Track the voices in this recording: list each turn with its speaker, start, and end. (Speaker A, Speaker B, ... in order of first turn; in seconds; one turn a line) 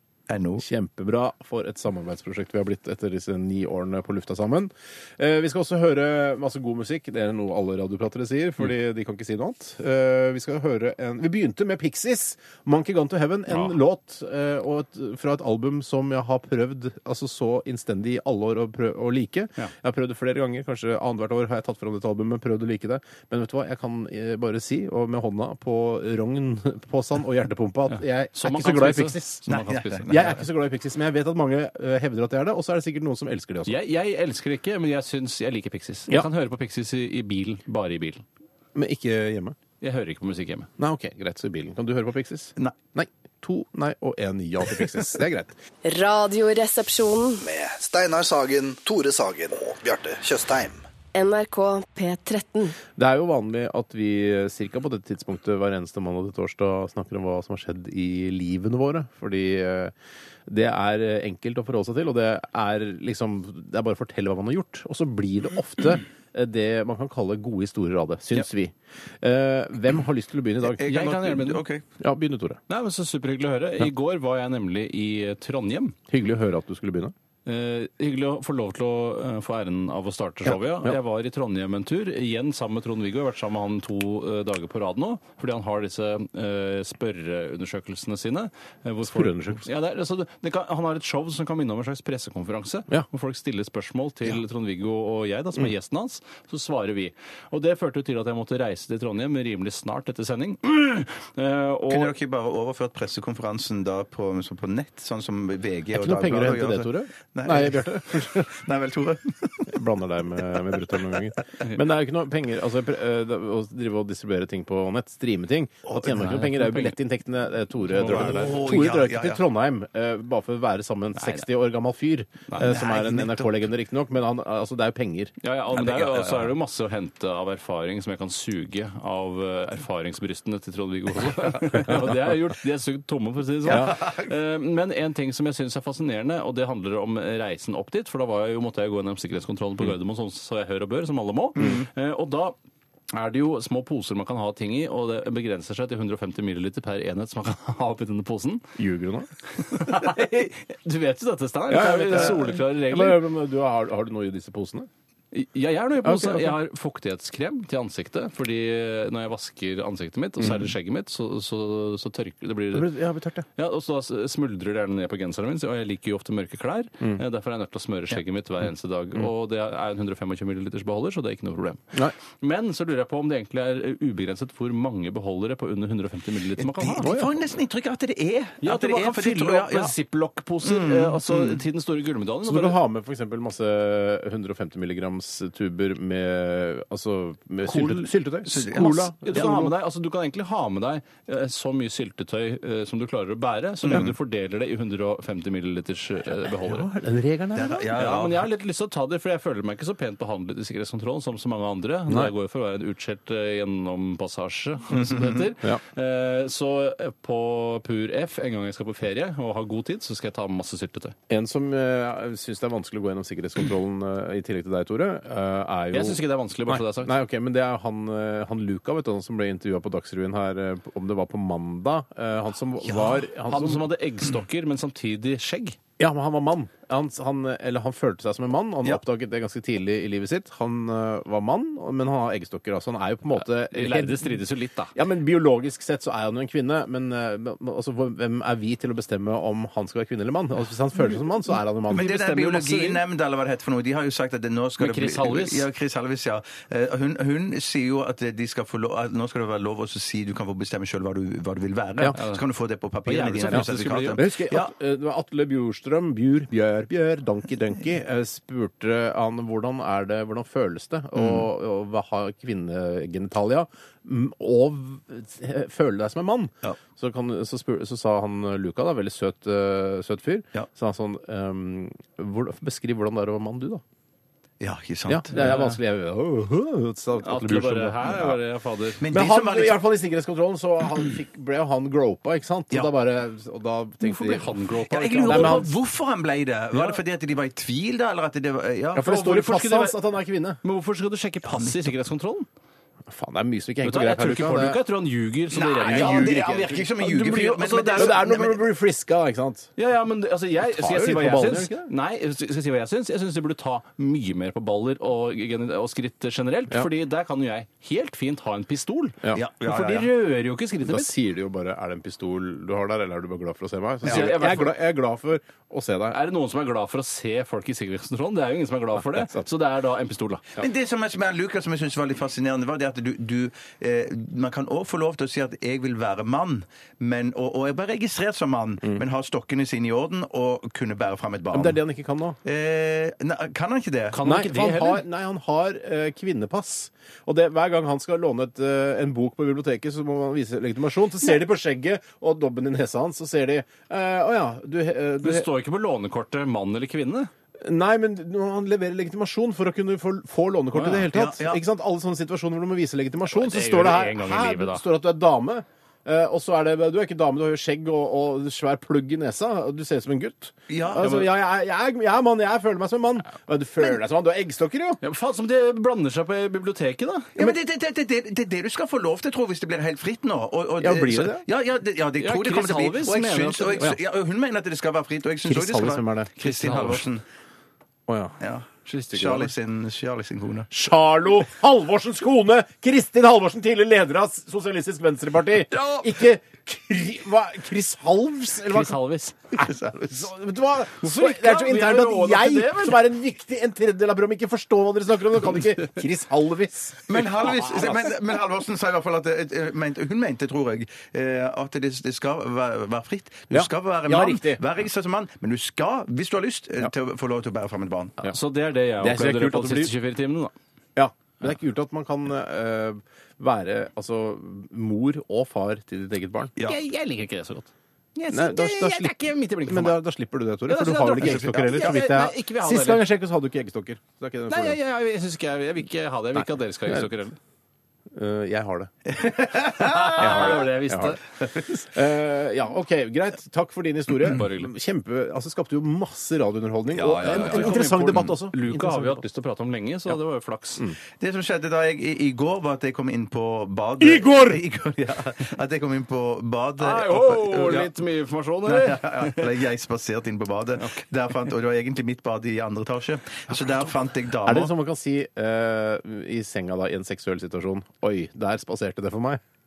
Speaker A: 0.3-0.6
Speaker B: 0.6-29.4
Speaker C: 13.5-13.8
Speaker C: 27.9-30.4
Speaker A: 29.5-30.3
Speaker B: 30.1-33.8
Speaker C: 33.6-38.2
Speaker B: 38.7-39.6
Speaker C: 39.8-40.7
Speaker B: 40.8-45.5
Speaker D: 45.8-47.4
Speaker E: 47.4-50.8
Speaker D: 51.1-52.7
Speaker B: 53.0-59.9
Speaker B: 60.5-70.8
Speaker A: 70.7-71.8
Speaker C: 70.8-71.6
Speaker B: 72.0-72.6
Speaker C: 72.7-76.0
Speaker B: 76.1-77.1
Speaker C: 77.5-102.1
Speaker B: 80.5-81.0
Speaker B: 89.0-89.7
Speaker A: 101.9-109.7
Speaker B: 105.9-108.6
Speaker B: 109.7-125.3
Speaker A: 115.9-116.2
Speaker C: 116.1-116.9
Speaker C: 117.9-118.6
Speaker A: 118.0-119.4
Speaker C: 121.2-121.5
Speaker C: 122.5-122.8
Speaker A: 122.6-123.6
Speaker C: 125.4-142.5
Speaker A: 125.7-126.5
Speaker A: 133.6-134.3
Speaker B: 133.7-134.0
Speaker A: 141.6-141.8
Speaker C: 143.1-148.7
Speaker B: 148.8-149.3
Speaker C: 149.5-153.2
Speaker B: 151.7-154.9
Speaker C: 155.3-162.9
Speaker B: 156.0-156.6
Speaker B: 160.4-160.7
Speaker B: 162.7-163.4
Speaker C: 163.6-177.1
Speaker A: 176.6-179.9
Speaker B: 177.0-177.3
Speaker C: 178.6-182.8
Speaker A: 180.6-181.6
Speaker B: 182.4-189.8
Speaker C: 187.6-196.9
Speaker A: 188.5-189.0
Speaker A: 193.8-194.1
Speaker B: 196.3-197.9
Speaker A: 197.5-198.4
Speaker C: 197.9-211.2
Speaker A: 204.9-205.4
Speaker B: 211.3-223.9
Speaker C: 215.9-217.1
Speaker A: 222.8-223.2
Speaker C: 223.4-225.8
Speaker B: 226.0-234.4
Speaker C: 233.7-234.9
Speaker B: 234.9-242.2
Speaker C: 241.9-243.0
Speaker A: 241.9-254.7
Speaker C: 244.8-245.7
Speaker C: 252.1-252.4
Speaker C: 253.0-254.2
Speaker B: 253.4-273.8
Speaker A: 261.1-261.4
Speaker A: 274.6-275.6
Speaker B: 275.1-278.4
Speaker C: 275.3-275.8
Speaker C: 277.2-279.0
Speaker A: 279.0-279.8
Speaker B: 279.1-284.5
Speaker C: 284.0-285.7
Speaker A: 284.9-289.1
Speaker B: 285.2-285.7
Speaker C: 286.7-287.0
Speaker B: 288.9-290.6
Speaker C: 289.0-290.0
Speaker C: 290.6-292.5
Speaker A: 291.5-291.9
Speaker B: 293.1-294.8
Speaker C: 293.8-298.3
Speaker A: 295.5-298.6
Speaker B: 295.8-299.7
Speaker C: 299.8-311.1
Speaker B: 300.6-301.9
Speaker A: 309.3-310.1
Speaker B: 310.8-316.2
Speaker C: 314.0-314.8
Speaker A: 314.0-314.3
Speaker C: 316.1-320.4
Speaker B: 319.1-319.4
Speaker A: 320.6-331.8
Speaker B: 331.5-332.4
Speaker A: 332.4-334.2
Speaker C: 334.1-335.0
Speaker B: 334.2-345.5
Speaker C: 345.2-347.3
Speaker B: 347.6-365.0
Speaker C: 350.7-351.1
Speaker A: 351.1-351.6
Speaker C: 353.3-354.8
Speaker A: 360.7-361.2
Speaker C: 365.0-367.4
Speaker A: 367.4-377.2
Speaker B: 370.8-371.4
Speaker C: 372.2-373.9
Speaker B: 375.4-376.3
Speaker C: 376.4-377.1
Speaker B: 378.1-378.3
Speaker A: 378.4-380.7
Speaker C: 378.9-379.5
Speaker B: 380.7-389.0
Speaker C: 385.7-386.1
Speaker C: 388.6-389.4
Speaker B: 389.5-397.5
Speaker A: 389.6-390.3
Speaker C: 391.0-393.0
Speaker A: 397.1-408.2
Speaker B: 403.5-404.6
Speaker C: 408.3-410.5
Speaker B: 409.0-409.9
Speaker B: 410.9-416.5
Speaker C: 416.6-420.0
Speaker B: 418.3-424.8
Speaker C: 420.7-423.1
Speaker A: 421.2-422.0
Speaker C: 424.5-427.4
Speaker B: 426.4-427.1
Speaker B: 428.1-428.9
Speaker A: 429.1-430.7
Speaker C: 429.8-431.2
Speaker B: 430.2-439.2
Speaker C: 434.2-434.7
Speaker A: 436.9-438.1
Speaker C: 437.2-440.9
Speaker A: 441.2-447.9
Speaker B: 444.0-444.6
Speaker C: 446.8-449.6
Speaker A: 448.6-454.7
Speaker B: 454.4-459.4